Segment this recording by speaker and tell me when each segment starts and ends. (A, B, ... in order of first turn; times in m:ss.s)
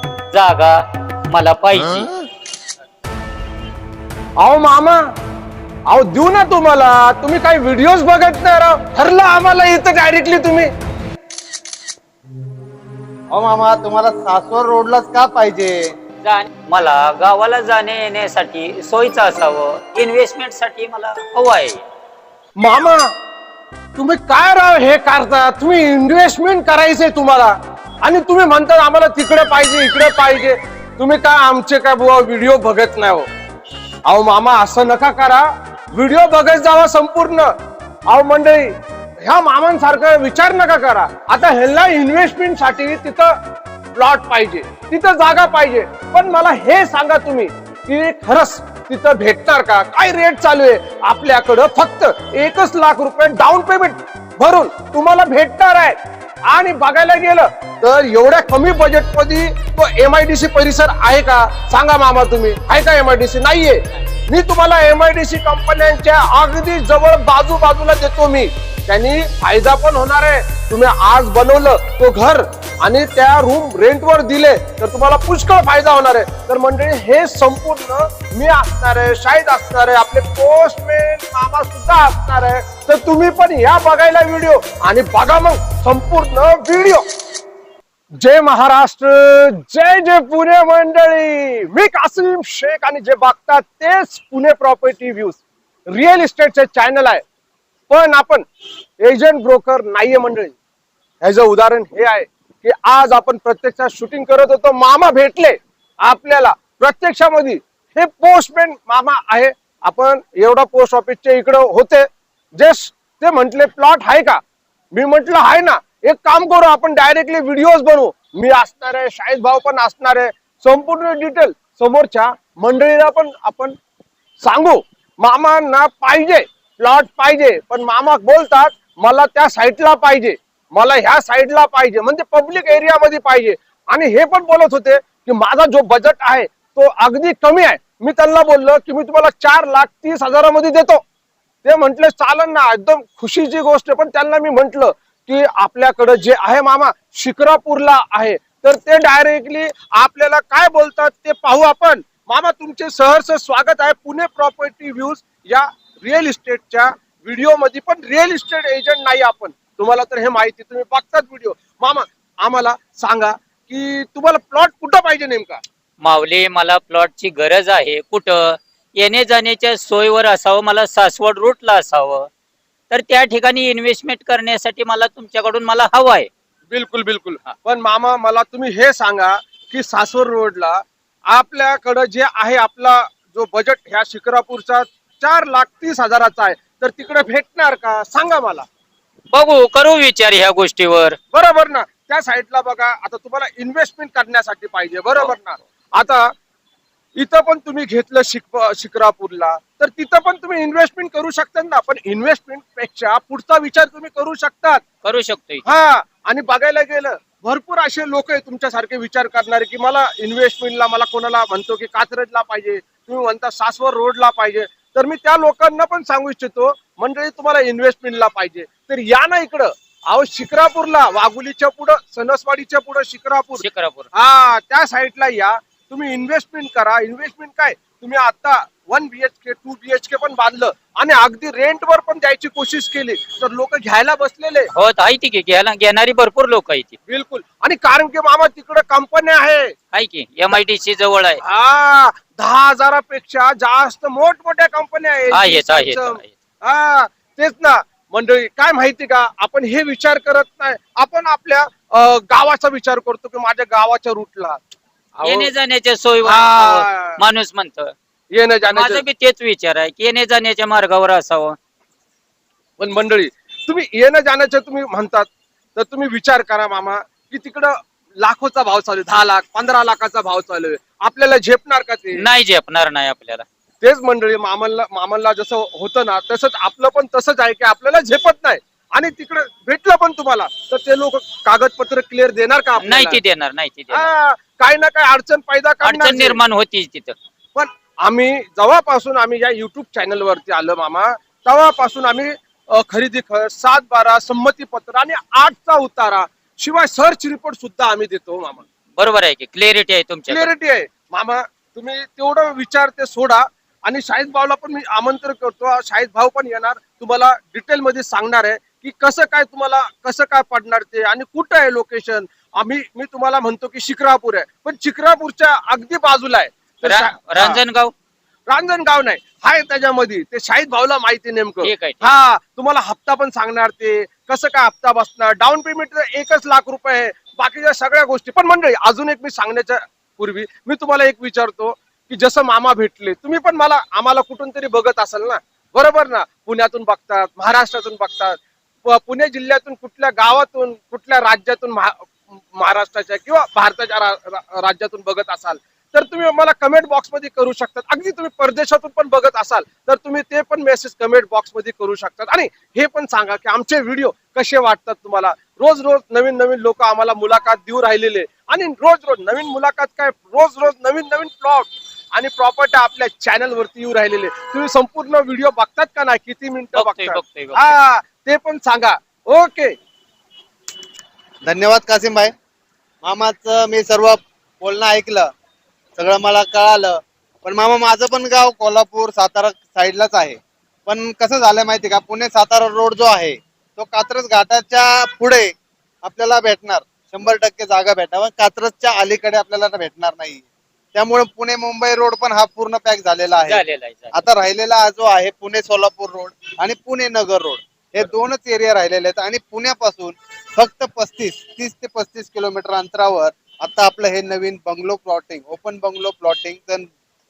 0:00.3-0:02.1 A
0:04.4-0:05.0 B
0:05.9-0:10.7 B
0:13.3-0:15.9 C
0:16.2-0:21.8 A
0:22.6-0:23.1 B
0:24.0-0:33.3 B
0:34.1-0:37.5 B
0:38.1-0:43.4 B
0:44.0-0:56.0 B
0:56.5-1:27.1 B
1:28.2-1:37.2 B
1:37.9-1:38.4 B
1:39.0-1:40.6 B
1:41.2-1:54.4 B
1:54.9-2:03.8 B
2:04.4-2:21.0 B
2:21.6-2:45.6 B
2:46.0-2:52.3 A
2:52.9-2:56.3 A
2:56.7-3:08.7 B
3:09.3-3:11.2 A
3:11.3-3:16.3 B
3:17.2-3:24.8 B
3:25.0-3:25.6 A
3:25.6-3:54.7 B
3:43.6-3:44.1 A
3:54.7-3:57.0 A
3:57.1-3:59.7 B
3:59.9-4:01.4 A
4:01.4-4:14.6 B
4:05.3-4:06.3 A
4:15.2-4:15.5 B
4:15.2-4:17.9 A
4:16.2-4:17.2 B
4:18.3-4:19.0 B
4:18.7-4:21.6 A
4:22.8-4:32.2 B
4:32.1-4:33.4 A
4:33.8-4:43.2 B
4:42.8-4:44.1 A
4:43.9-4:46.4 B
4:45.8-4:47.2 A
4:47.6-4:58.7 B
4:59.0-5:00.5 A
5:00.3-5:17.6 B
5:16.8-5:17.9 A
5:18.5-6:09.8 B
5:21.6-5:22.1 A
6:06.8-6:07.8 A
6:11.4-6:12.3 C
6:13.0-6:15.3 C
6:16.0-6:33.6 C
6:33.5-6:34.2 A
6:34.1-6:46.9 C